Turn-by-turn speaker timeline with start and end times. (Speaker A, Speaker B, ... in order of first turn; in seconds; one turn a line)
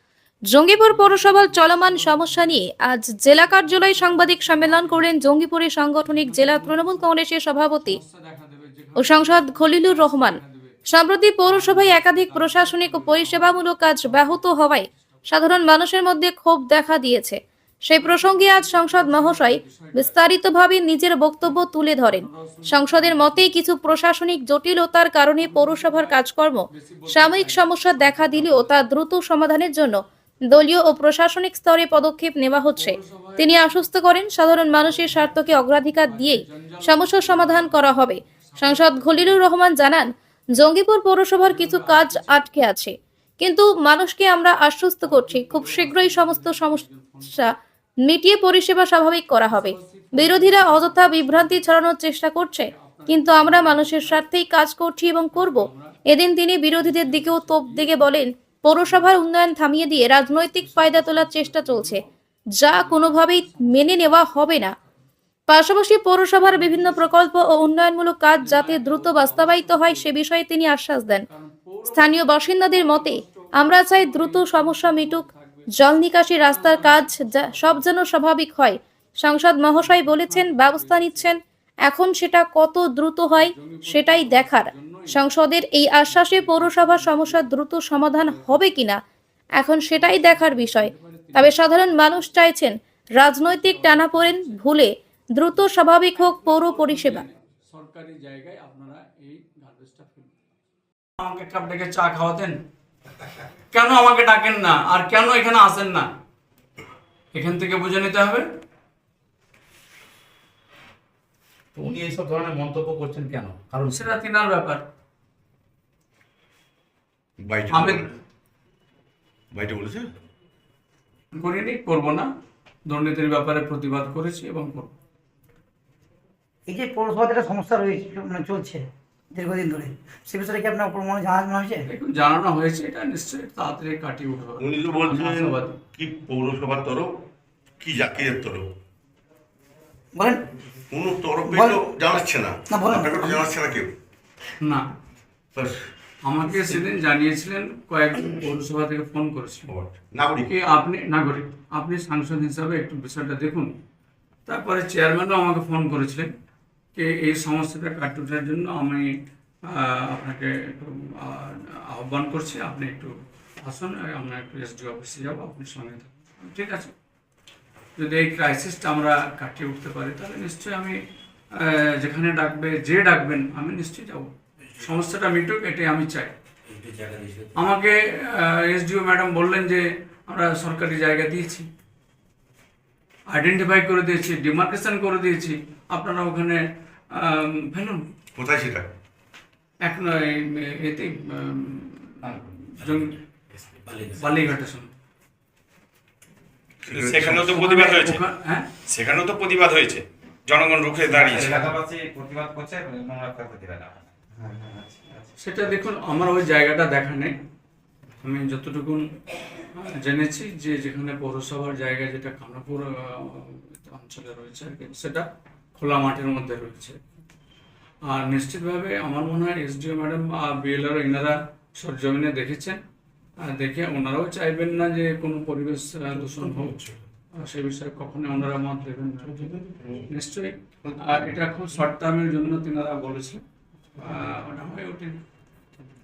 Speaker A: 0.5-8.0
Speaker B: 0.8-2.6
Speaker B: 3.5-5.1
Speaker B: 6.1-7.1
Speaker B: 7.8-10.8
Speaker A: 9.0-30.0
Speaker B: 11.4-14.8
Speaker B: 17.9-20.2
Speaker B: 22.1-23.5
Speaker B: 25.4-26.2
Speaker B: 26.7-28.8
Speaker A: 30.5-47.5
Speaker B: 32.8-34.1
Speaker B: 34.7-39.5
Speaker B: 41.4-42.4
Speaker B: 45.0-47.4
Speaker A: 48.0-62.0
Speaker B: 49.5-51.7
Speaker B: 52.7-54.3
Speaker B: 55.3-56.0
Speaker B: 56.8-58.2
Speaker B: 58.8-59.2
Speaker B: 60.3-62.1
Speaker A: 62.6-64.7
Speaker B: 62.7-65.0
Speaker A: 65.5-71.2
Speaker B: 66.4-67.2
Speaker B: 68.4-70.1
Speaker B: 71.3-75.7
Speaker A: 71.9-89.0
Speaker B: 76.4-77.9
Speaker B: 79.8-81.3
Speaker B: 83.3-85.3
Speaker B: 86.0-88.7
Speaker A: 89.6-97.2
Speaker B: 89.9-92.2
Speaker B: 93.4-94.6
Speaker B: 95.5-100.4
Speaker B: 101.2-102.6
Speaker B: 103.7-106.1
Speaker B: 107.3-108.5
Speaker C: 111.8-113.8
Speaker B: 113.8-114.8
Speaker D: 117.4-118.1
Speaker B: 117.7-118.0
Speaker D: 119.5-120.0
Speaker B: 121.3-122.3
Speaker B: 122.9-124.9
Speaker E: 126.7-131.9
Speaker B: 131.9-135.8
Speaker D: 134.6-137.1
Speaker D: 137.8-138.7
Speaker E: 140.1-140.4
Speaker D: 140.9-143.9
Speaker E: 141.5-141.8
Speaker E: 142.7-143.5
Speaker B: 144.6-144.9
Speaker B: 146.2-149.7
Speaker D: 149.7-150.5
Speaker B: 150.5-153.7
Speaker B: 154.5-156.3
Speaker B: 157.0-159.1
Speaker B: 159.7-166.9
Speaker B: 168.0-171.0
Speaker B: 171.6-176.4
Speaker F: 176.8-177.5
Speaker B: 177.6-181.7
Speaker B: 183.3-186.6
Speaker B: 187.2-188.1
Speaker D: 188.3-188.9
Speaker B: 189.8-193.2
Speaker F: 193.8-194.3
Speaker B: 194.1-194.9
Speaker D: 196.8-197.6
Speaker F: 196.9-198.2
Speaker B: 197.5-198.7
Speaker F: 198.9-201.8
Speaker G: 201.4-203.9
Speaker B: 205.4-207.4
Speaker B: 208.2-209.1
Speaker B: 209.7-217.0
Speaker B: 218.1-222.8
Speaker B: 223.4-226.8
Speaker B: 227.3-233.4
Speaker B: 234.0-235.2